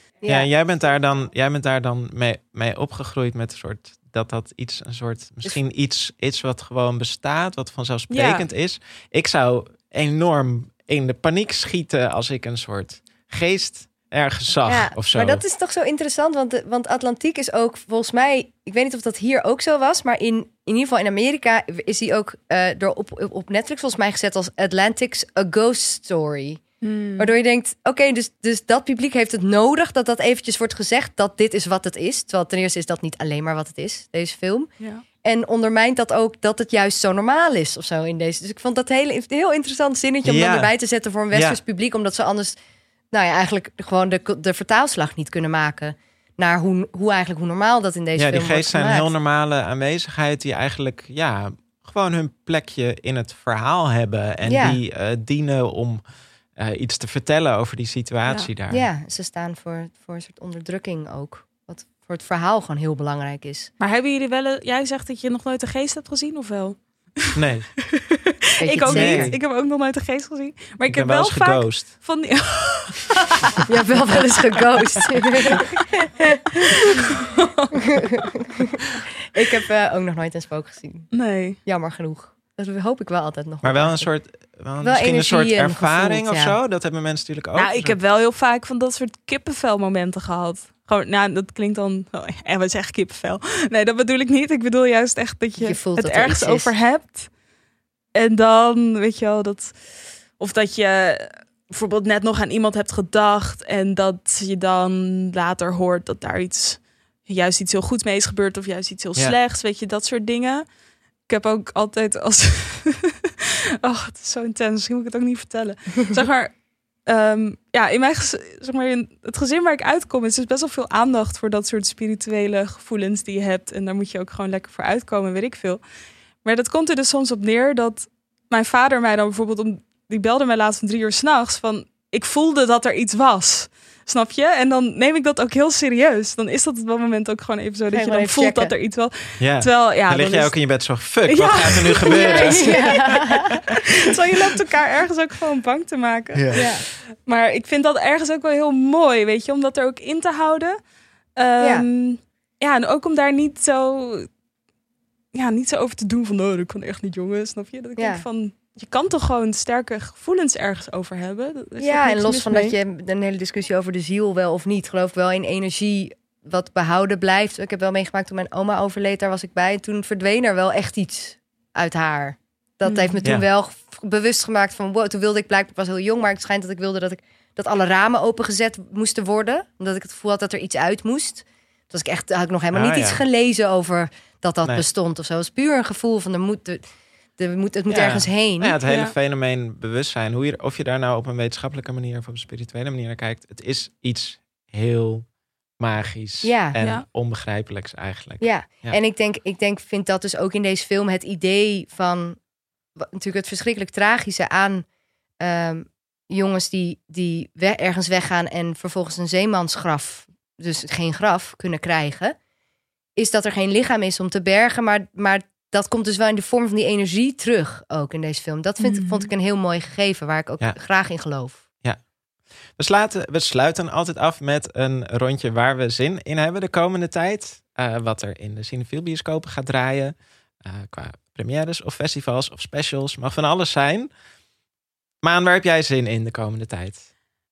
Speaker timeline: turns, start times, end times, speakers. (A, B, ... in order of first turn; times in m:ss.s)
0:00.2-0:00.5 A
0:00.3-0:15.4 B
0:08.1-0:08.4 C
0:14.7-0:26.6 A
0:26.8-0:27.3 C
0:27.2-0:34.7 A
0:35.2-0:42.6 A
0:40.2-0:40.7 B
0:41.3-0:41.6 B
0:43.1-0:49.1 A
0:48.2-0:56.0 B
0:54.4-0:54.8 A
0:56.6-0:58.9 B
0:58.7-1:03.7 A
1:03.8-1:07.4 C
1:07.4-1:07.8 B
1:07.9-1:13.2 C
1:08.6-1:09.4 A
1:08.9-1:09.4 B
1:10.9-1:11.9 B
1:13.6-1:16.9 A
1:17.3-1:18.3 C
1:19.3-1:24.1 A
1:21.1-1:21.6 C
1:23.6-1:28.0 B
1:24.8-1:26.6 A
1:27.6-1:37.3 C
1:35.6-1:36.7 A
1:38.2-1:50.7 C
1:51.3-2:05.8 C
2:06.4-2:20.7 C
2:17.9-2:18.7 A
2:19.4-2:23.6 B
2:21.3-2:30.8 C
2:22.1-2:23.5 A
2:26.3-2:26.7 B
2:26.5-2:26.8 A
2:31.4-2:34.3 C
2:31.6-2:31.8 A
2:35.3-2:42.8 C
2:38.0-2:38.2 A
2:41.8-3:06.8 A
2:52.8-2:53.2 C
3:02.7-3:03.2 B
3:07.4-3:08.8 A
3:07.9-3:15.3 B
3:08.8-3:09.1 C
3:15.8-3:19.0 B
3:16.4-3:16.8 A
3:16.8-3:17.1 C
3:18.4-3:22.4 A
3:23.0-3:24.9 A
3:25.4-3:32.4 A
3:33.2-3:41.6 A
3:38.8-3:39.3 C
3:42.8-3:54.1 B
3:55.2-3:57.0 B